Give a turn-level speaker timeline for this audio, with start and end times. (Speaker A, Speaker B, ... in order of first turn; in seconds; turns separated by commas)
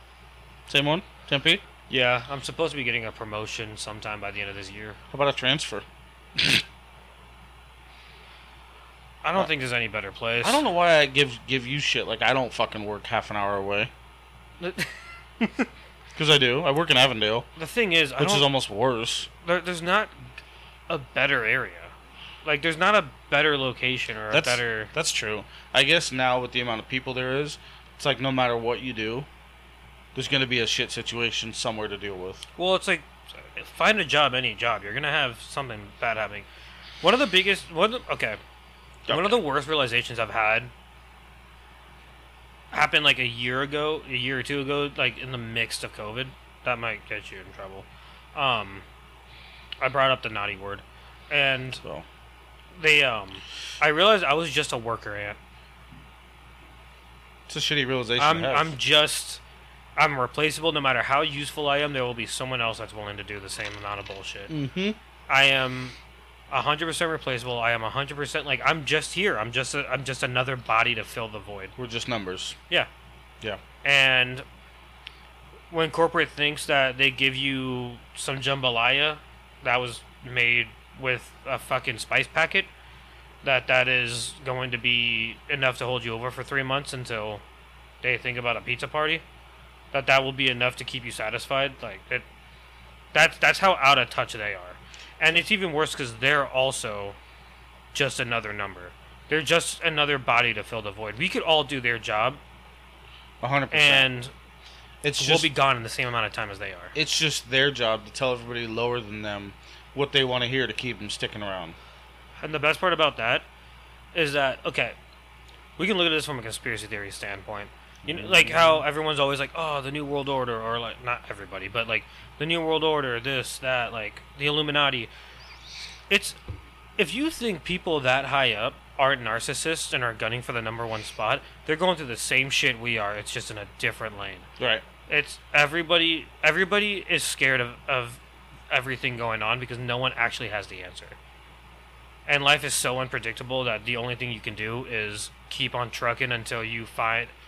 Speaker A: 0.7-1.6, Speaker B: 1.9-5.0, Speaker A: 5.1-5.8, Speaker A: 6.4-6.6, Speaker B: 9.2-10.6, Speaker A: 10.4-13.9, Speaker B: 14.6-15.7, Speaker A: 16.1-17.5, Speaker B: 17.6-18.5, Speaker A: 18.2-19.3, Speaker B: 19.4-20.1, Speaker B: 20.9-21.9, Speaker B: 22.4-24.9, Speaker A: 24.3-29.3, Speaker A: 30.1-32.4, Speaker B: 32.6-36.5, Speaker B: 37.0-38.4, Speaker A: 39.1-39.4, Speaker B: 39.1-40.7, Speaker B: 42.7-48.8, Speaker B: 49.8-51.8, Speaker B: 52.8-55.4, Speaker A: 57.5-58.8, Speaker B: 58.2-59.4, Speaker B: 60.0-64.5, Speaker A: 64.5-65.0, Speaker B: 65.3-66.0, Speaker B: 66.5-71.7, Speaker A: 71.8-72.6, Speaker B: 73.8-74.4, Speaker B: 75.7-82.7, Speaker B: 83.4-87.4, Speaker B: 88.0-89.2, Speaker B: 89.9-92.2, Speaker B: 93.1-97.2, Speaker B: 97.9-102.4, Speaker A: 103.4-104.1, Speaker B: 103.7-104.3, Speaker A: 105.0-105.5, Speaker B: 105.2-106.9, Speaker A: 106.9-111.8, Speaker B: 112.4-113.5, Speaker B: 114.1-115.0, Speaker B: 115.8-125.1, Speaker A: 118.0-118.8, Speaker B: 126.1-126.4, Speaker B: 127.0-134.5, Speaker A: 134.6-134.8, Speaker B: 135.1-138.2, Speaker B: 138.7-141.2, Speaker B: 142.3-147.3